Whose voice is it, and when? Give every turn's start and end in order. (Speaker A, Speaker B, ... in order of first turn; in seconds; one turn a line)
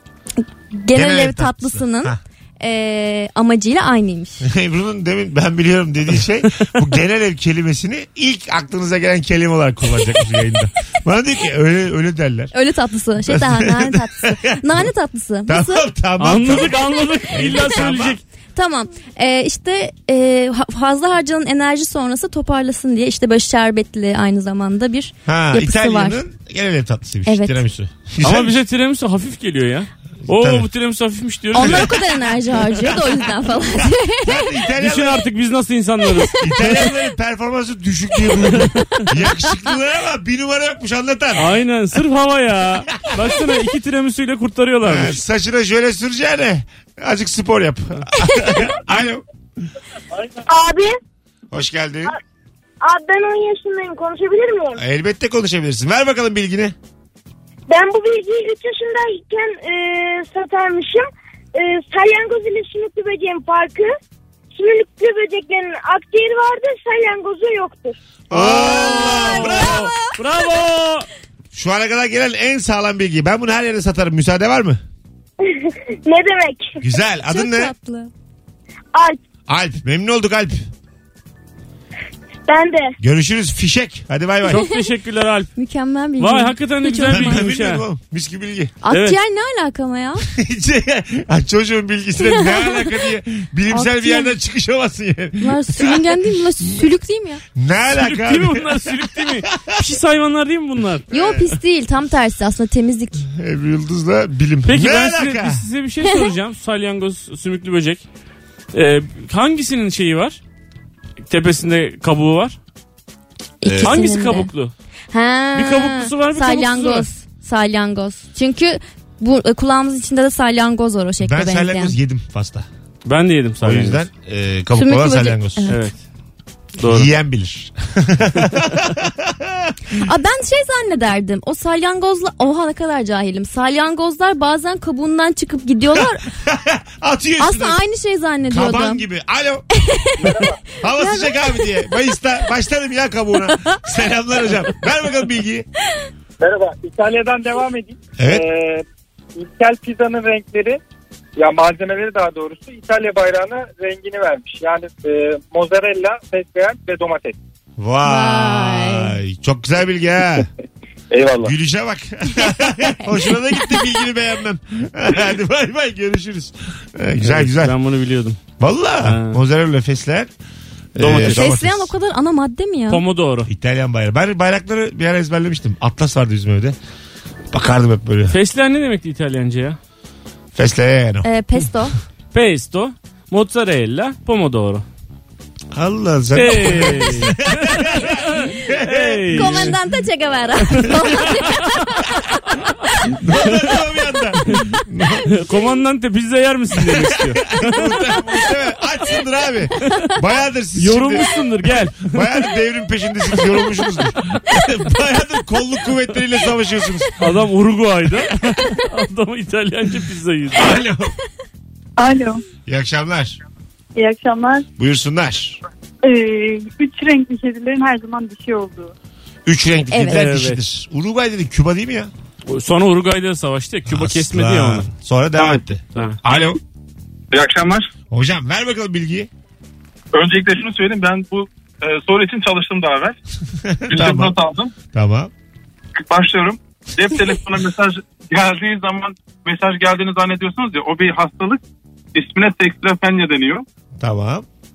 Speaker A: 0.7-4.5
Speaker B: 0.9-2.2
Speaker B: 4.4-12.5
Speaker A: 12.5-15.9
Speaker B: 13.3-14.8
Speaker B: 15.5-18.2
Speaker C: 16.2-18.2
Speaker A: 18.6-26.2
Speaker B: 25.3-28.6
Speaker A: 27.3-27.6
Speaker C: 28.2-31.9
Speaker B: 30.2-30.7
Speaker A: 31.5-34.5
Speaker B: 31.6-31.9
Speaker B: 34.2-35.3
Speaker C: 34.8-36.9
Speaker B: 36.4-41.5
Speaker C: 38.6-39.1
Speaker C: 41.4-45.2
Speaker B: 43.0-43.2
Speaker B: 44.8-49.2
Speaker D: 50.4-51.0
Speaker B: 51.5-52.1
Speaker D: 52.8-54.8
Speaker B: 54.8-56.8
Speaker D: 57.7-63.9
Speaker D: 64.5-68.0
Speaker B: 68.3-69.9
Speaker C: 68.3-71.1
Speaker A: 68.6-69.7
Speaker B: 71.5-74.8
Speaker D: 75.4-76.8
Speaker B: 76.8-77.7
Speaker A: 77.3-78.1
Speaker B: 79.5-80.7
Speaker D: 82.5-83.0
Speaker B: 83.0-84.7
Speaker C: 84.5-85.5
Speaker A: 84.5-84.8
Speaker A: 85.6-87.5
Speaker C: 86.2-87.8
Speaker B: 87.1-88.8
Speaker A: 88.8-90.3
Speaker C: 88.9-89.2
Speaker B: 90.3-96.9
Speaker A: 92.2-92.8
Speaker A: 93.7-94.3
Speaker A: 95.4-97.4
Speaker B: 97.5-99.8
Speaker C: 97.9-101.1
Speaker B: 101.1-101.6
Speaker A: 101.1-103.3
Speaker B: 103.3-105.7
Speaker C: 104.7-108.0
Speaker C: 108.7-110.4
Speaker C: 111.3-112.6
Speaker A: 113.6-114.5
Speaker B: 113.6-114.0
Speaker C: 113.8-114.7
Speaker A: 115.1-122.0
Speaker C: 115.5-117.1
Speaker B: 121.2-122.7
Speaker C: 123.0-124.0
Speaker B: 123.6-125.7
Speaker A: 124.8-125.8
Speaker C: 125.7-126.0
Speaker C: 126.8-127.1
Speaker B: 126.8-129.8
Speaker A: 129.9-136.2
Speaker B: 135.9-137.8
Speaker A: 137.4-139.0
Speaker B: 138.5-139.6
Speaker A: 139.8-141.7
Speaker E: 140.2-140.6
Speaker B: 140.8-145.7
Speaker A: 143.5-143.8
Speaker E: 146.4-148.8
Speaker B: 148.2-148.5
Speaker E: 149.4-150.8
Speaker E: 151.4-157.4
Speaker B: 157.8-160.5
Speaker A: 158.0-159.2
Speaker B: 161.4-167.8
Speaker C: 167.2-168.4
Speaker B: 168.6-170.3
Speaker C: 169.0-169.4
Speaker B: 170.9-171.9
Speaker C: 171.0-171.5
Speaker A: 171.2-173.0
Speaker C: 172.9-173.5
Speaker B: 173.5-176.8
Speaker B: 177.5-178.4
Speaker C: 178.3-179.8
Speaker B: 180.5-181.3
Speaker A: 181.2-182.0
Speaker C: 182.3-184.8
Speaker B: 185.7-189.8
Speaker C: 186.3-189.8
Speaker A: 189.3-192.2
Speaker C: 190.7-191.8
Speaker B: 190.8-191.4
Speaker A: 192.9-193.5
Speaker B: 193.1-195.4
Speaker C: 195.3-198.2
Speaker B: 196.8-201.3
Speaker C: 200.8-202.3
Speaker B: 202.0-207.2
Speaker C: 207.2-210.8
Speaker B: 210.6-211.1
Speaker F: 212.0-212.4
Speaker B: 212.7-213.4
Speaker F: 214.0-214.7
Speaker B: 214.8-215.6
Speaker F: 216.0-218.9
Speaker B: 219.5-222.1
Speaker A: 219.9-220.3
Speaker C: 220.1-220.6
Speaker C: 222.5-224.9
Speaker B: 223.9-226.6
Speaker G: 225.4-225.6
Speaker G: 227.3-227.9
Speaker B: 228.1-229.3
Speaker G: 230.1-233.2
Speaker B: 233.6-234.3
Speaker G: 233.9-234.7
Speaker B: 234.9-235.3
Speaker G: 236.0-241.6
Speaker G: 242.1-243.7
Speaker B: 244.0-244.4